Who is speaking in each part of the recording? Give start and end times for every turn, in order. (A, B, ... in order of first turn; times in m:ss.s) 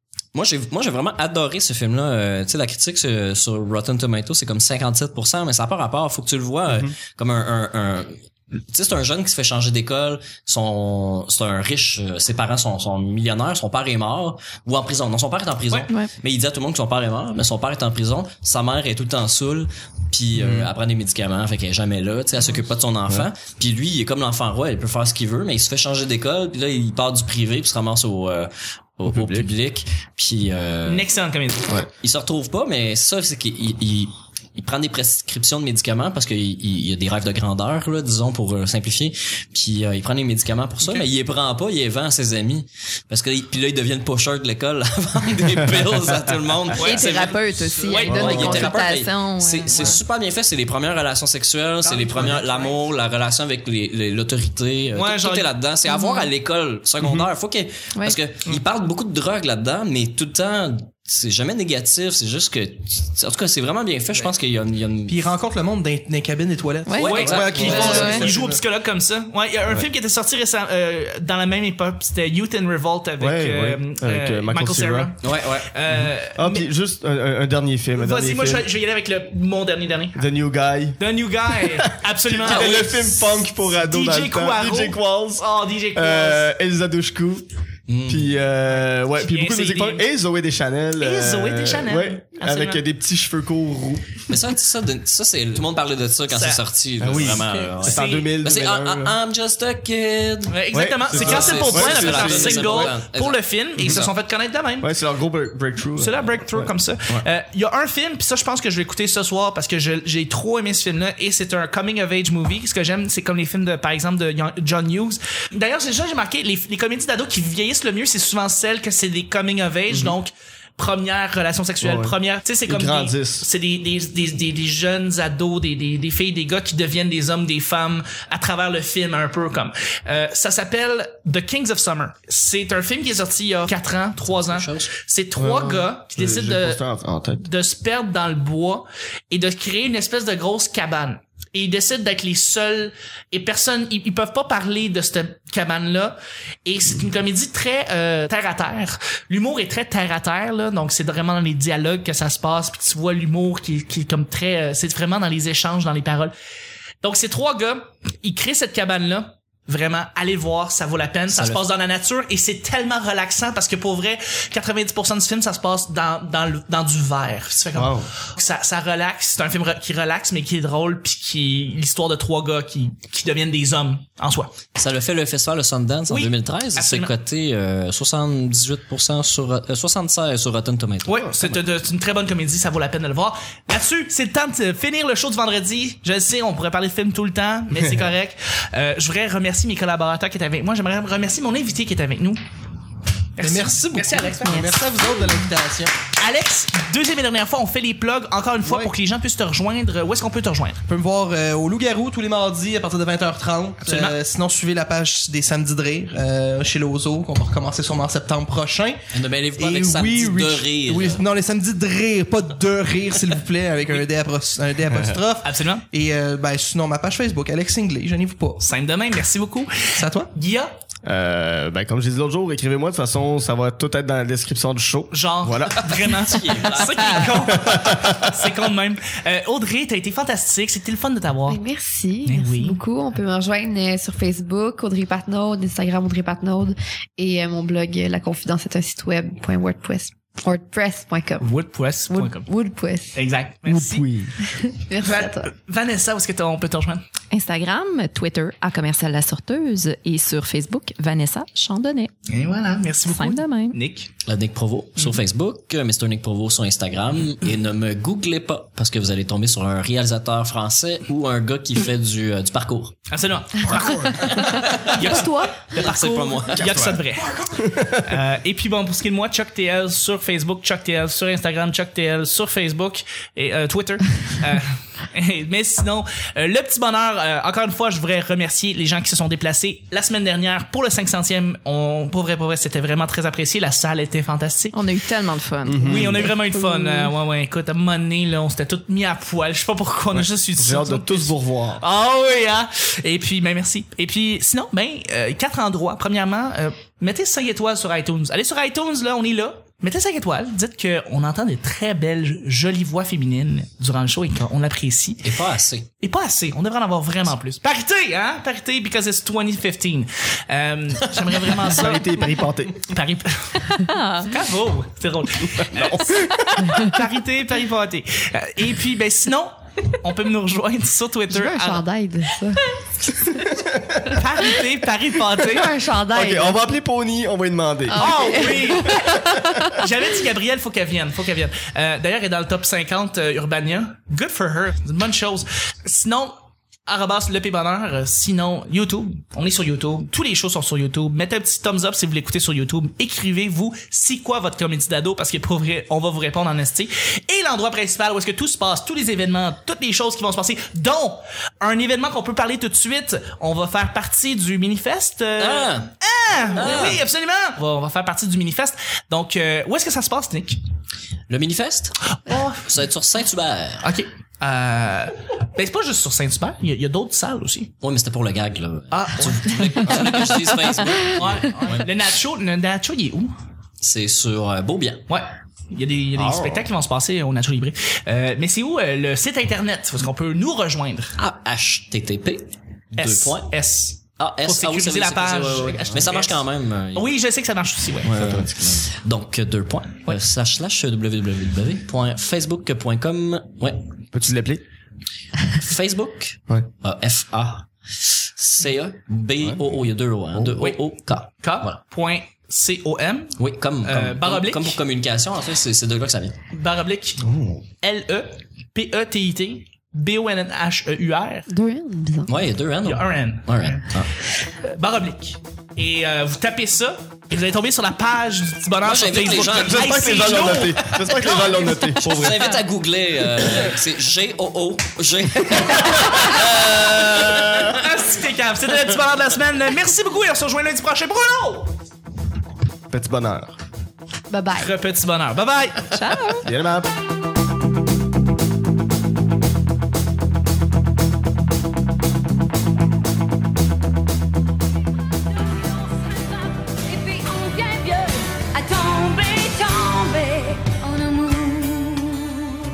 0:00.3-0:31.1 A
0:06.7-0:06.9 B
0:20.3-0:20.7 B
0:29.0-0:29.5 B
0:30.8-0:31.7 C
0:32.0-1:05.3 A
0:46.7-0:48.7 C
0:46.8-0:50.0 D
0:48.1-0:48.7 B
0:51.8-0:52.8 C
0:54.9-0:55.5 C
0:55.8-0:56.3 D
0:57.0-0:57.3 B
1:05.1-1:08.2 E
1:06.8-1:08.2 D
1:07.0-1:08.2 A
1:07.0-1:16.6 C
1:07.6-1:08.6 B
1:13.2-1:15.1 B
1:15.2-1:15.7 A
1:15.9-1:18.7 B
1:18.0-1:20.2 C
1:20.1-1:27.5 B
1:21.0-1:26.5 C
1:22.4-1:22.9 A
1:27.9-1:28.4 A
1:28.0-1:34.2 B
1:29.1-1:30.1 C
1:31.0-1:32.8 C
1:34.3-1:40.6 A
1:36.3-1:36.6 C
1:37.0-1:39.2 B
1:37.3-1:37.7 E
1:40.5-1:44.9 C
1:40.7-1:42.9 B
1:41.1-1:44.1 A
1:44.8-1:47.2 B
1:46.0-2:16.8 C
1:59.9-2:00.2 B
2:01.8-2:02.1 B
2:02.6-2:03.5 B
2:14.5-2:14.9 A
2:15.4-2:17.5 B
2:17.4-2:36.3 C
2:37.0-2:54.6 C
2:41.3-2:41.6 A
2:47.7-2:48.1 B
2:54.7-3:01.6 A
2:56.1-2:57.1 C
3:01.0-3:12.4 C
3:07.7-3:08.1 B
3:13.4-3:14.7 C
3:13.4-3:15.9 E
3:14.4-3:15.4 D
3:16.2-3:20.8 C
3:18.6-3:18.9 E
3:20.9-3:29.0 E
3:23.8-3:24.2 C
3:29.1-3:31.2 A
3:29.6-3:38.6 E
3:35.4-3:35.8 C
3:38.6-3:40.7 C
3:39.9-3:40.3 E
3:41.0-3:46.1 B
3:45.1-3:51.6 C
3:46.2-3:47.4 A
3:47.5-3:48.4 B
3:51.5-4:01.5 F
3:52.2-3:52.8 C
4:01.4-4:02.5 C
4:02.1-4:03.2 F
4:03.1-4:04.1 C
4:03.6-4:04.5 B
4:04.6-4:05.5 F
4:05.0-4:07.0 C
4:07.3-4:12.1 D
4:12.3-4:14.1 C
4:13.0-4:13.8 D
4:14.2-4:23.0 A
4:23.1-4:44.9 C
4:24.3-4:27.0 A
4:24.9-4:25.6 F
4:27.6-4:28.2 B
4:44.7-4:47.1 D
4:45.6-4:46.3 B
4:45.8-5:05.4 C
4:50.1-4:51.8 B
5:05.2-5:05.9 A
5:06.0-5:21.8 C
5:11.6-5:12.8 B
5:13.8-5:14.4 D
5:15.5-5:16.5 B
5:21.3-5:22.6 F
5:23.2-5:23.5 F
5:23.5-5:24.2 B
5:24.0-5:25.7 C
5:25.4-5:26.7 F
5:26.1-5:29.7 B
5:27.9-5:29.4 F
5:28.0-5:36.4 C
5:36.9-6:00.6 C
5:55.4-5:55.9 A
5:56.5-5:57.0 A
6:01.3-6:03.8 A
6:02.2-6:02.7 C
6:03.8-6:07.7 C
6:07.8-6:11.9 A
6:08.9-6:13.3 C
6:13.8-6:15.0 A
6:15.1-6:21.2 C
6:16.2-6:16.6 A
6:21.2-6:27.1 A
6:23.0-6:28.1 C
6:28.0-6:33.9 A
6:28.1-6:28.8 B
6:34.1-6:34.6 B
6:35.5-6:41.8 A
6:40.6-6:44.8 C
6:43.4-6:46.4 A
6:46.5-6:47.2 C
6:47.2-6:47.6 B
6:47.8-6:51.5 C
6:51.5-6:52.4 F
6:52.2-6:54.1 A
6:52.8-7:02.3 C
6:58.8-7:00.3 A
6:59.6-7:02.6 B
7:02.0-7:07.8 A
7:05.9-7:06.4 C
7:07.3-7:11.8 C
7:12.9-7:13.5 B
7:14.3-7:14.7 F
7:14.6-7:15.9 C
7:15.9-7:16.5 D
7:16.4-7:16.9 B
7:25.4-7:32.3 G